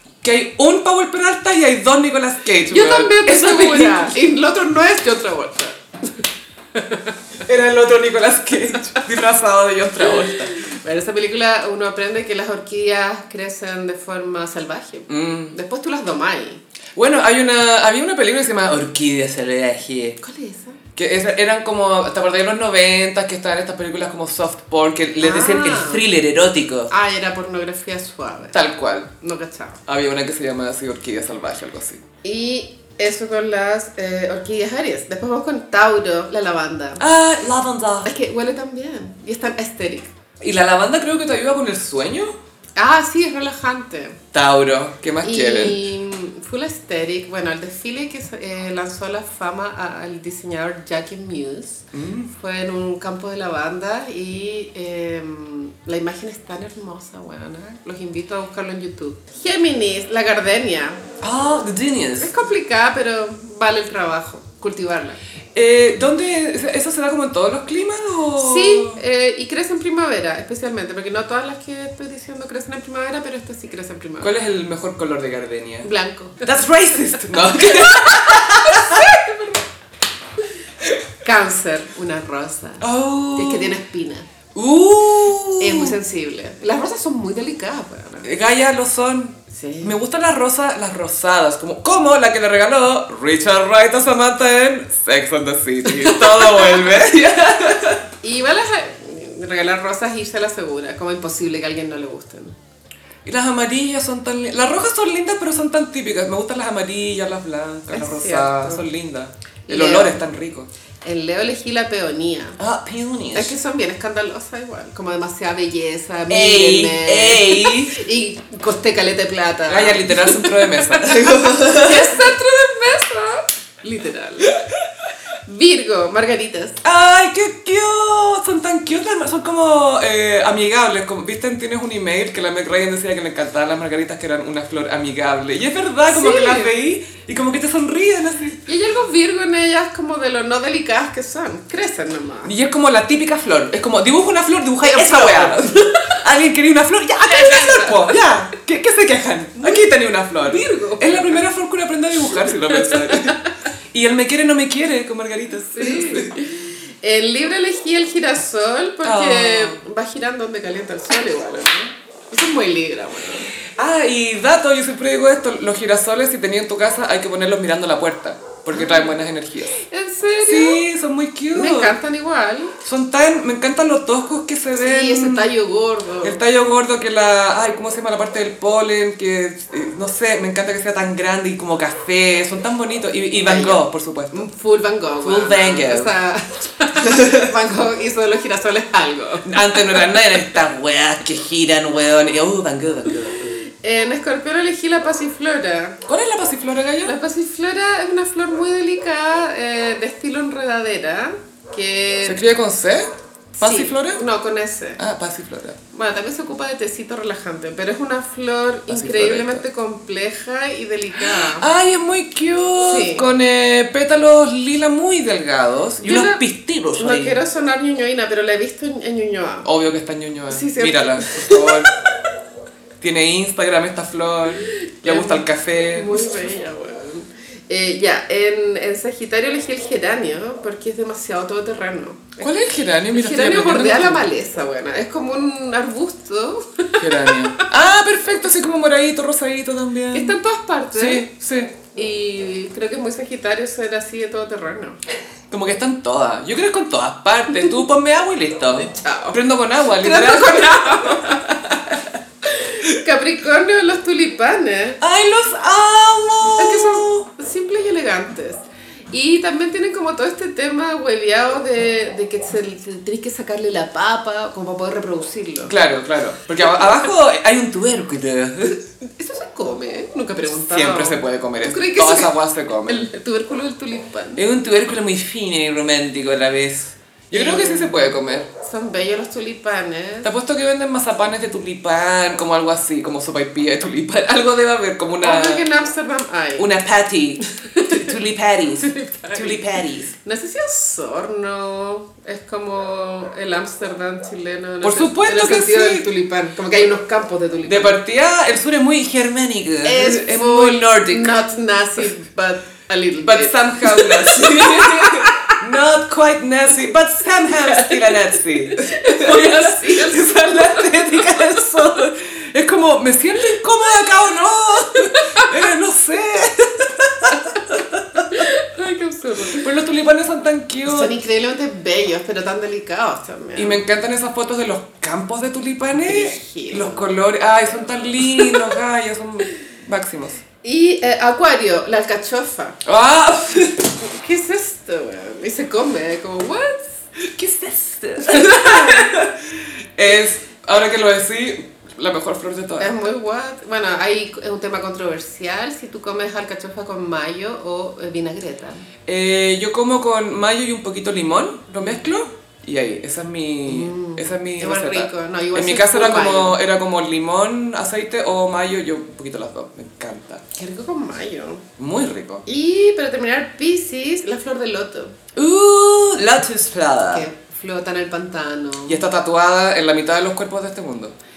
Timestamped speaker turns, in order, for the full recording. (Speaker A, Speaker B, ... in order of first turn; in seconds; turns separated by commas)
Speaker A: 0.2-4.1, Speaker B: 2.7-6.1, Speaker B: 6.7-7.1, Speaker A: 7.4-10.5, Speaker B: 10.0-16.6, Speaker A: 15.1-15.5, Speaker A: 16.9-20.2, Speaker B: 20.2-20.8, Speaker A: 20.9-26.9, Speaker B: 25.2-26.0, Speaker B: 26.9-28.6, Speaker A: 28.5-29.1, Speaker B: 29.2-29.8, Speaker A: 29.9-32.0, Speaker B: 32.2-37.0, Speaker A: 37.0-38.1, Speaker B: 38.0-40.1, Speaker A: 40.4-42.4, Speaker B: 42.8-44.2, Speaker A: 44.3-45.8, Speaker B: 45.2-61.0, Speaker A: 51.9-52.3, Speaker A: 61.2-62.3, Speaker B: 62.2-65.2, Speaker A: 65.5-69.0, Speaker B: 68.4-74.3, Speaker A: 74.2-75.9, Speaker B: 75.8-76.5, Speaker A: 76.4-79.2, Speaker B: 77.5-79.6, Speaker B: 81.2-84.3, Speaker A: 82.8-83.8, Speaker A: 84.5-86.0, Speaker B: 85.6-88.3, Speaker A: 88.2-98.0, Speaker B: 89.5-90.0, Speaker B: 95.8-97.0, Speaker B: 98.2-102.5, Speaker A: 103.2-110.7, Speaker B: 107.9-108.8, Speaker B: 109.7-110.2, Speaker B: 111.0-112.6, Speaker A: 112.6-113.5, Speaker B: 113.3-124.5, Speaker A: 116.3-118.0, Speaker A: 119.7-122.3, Speaker B: 125.5-126.8, Speaker A: 126.8-138.7, Speaker B: 136.1-136.7, Speaker B: 138.7-142.5, Speaker A: 142.4-153.4, Speaker B: 144.8-146.2, Speaker B: 147.3-148.2, Speaker B: 149.6-151.4, Speaker B: 152.7-153.5, Speaker A: 153.9-156.3, Speaker B: 155.7-163.5, Speaker A: 159.0-159.8, Speaker A: 163.8-169.7, Speaker B: 168.7-169.1, Speaker B: 169.7-170.8, Speaker A: 170.4-171.9, Speaker B: 171.5-172.7, Speaker A: 172.8-175.5, Speaker B: 174.8-176.4, Speaker A: 176.2-184.5, Speaker B: 183.4-190.1, Speaker A: 185.2-186.1, Speaker A: 187.0-187.5, Speaker A: 189.4-193.6, Speaker B: 193.8-196.0, Speaker A: 196.1-197.1, Speaker B: 197.0-202.4, Speaker A: 202.2-203.1, Speaker B: 203.6-205.0, Speaker A: 203.6-204.2, Speaker A: 205.0-205.8, Speaker B: 205.9-211.7, Speaker A: 208.9-209.6, Speaker A: 211.2-217.4, Speaker B: 212.8-213.2, Speaker B: 216.0-216.4, Speaker B: 216.9-219.7, Speaker A: 219.6-221.9, Speaker B: 220.5-221.8, Speaker A: 223.0-226.5, Speaker B: 224.6-232.5, Speaker A: 232.4-234.2, Speaker B: 233.1-237.7, Speaker A: 237.0-240.4, Speaker B: 240.1-241.3, Speaker A: 240.9-241.8, Speaker B: 241.9-245.0, Speaker A: 245.5-252.2, Speaker B: 248.7-251.5, Speaker B: 252.4-255.0, Speaker A: 255.0-257.3, Speaker B: 256.6-258.6, Speaker B: 259.1-265.7, Speaker A: 265.7-268.8, Speaker B: 269.2-274.4, Speaker A: 270.7-273.1, Speaker A: 274.4-278.5, Speaker B: 277.3-280.3, Speaker A: 280.2-285.7, Speaker B: 285.2-286.7, Speaker A: 286.6-290.1, Speaker B: 287.4-288.1, Speaker B: 288.8-298.0, Speaker A: 294.8-296.1, Speaker A: 297.6-301.3, Speaker B: 299.8-305.6, Speaker A: 303.2-318.5, Speaker B: 307.5-311.6, Speaker B: 315.0-315.5, Speaker B: 318.3-319.6, Speaker A: 319.4-321.1, Speaker B: 320.8-323.8, Speaker A: 323.6-330.4, Speaker B: 326.0-327.1, Speaker B: 328.2-328.7, Speaker B: 330.6-332.8, Speaker A: 332.8-333.9, Speaker B: 334.0-336.9, Speaker A: 337.2-342.9, Speaker B: 338.2-339.2, Speaker B: 342.8-348.9, Speaker A: 349.1-360.4, Speaker B: 353.7-356.6, Speaker B: 360.6-361.6, Speaker A: 361.8-362.4, Speaker B: 362.4-365.1, Speaker A: 365.4-367.3, Speaker B: 367.1-369.0, Speaker A: 368.9-371.1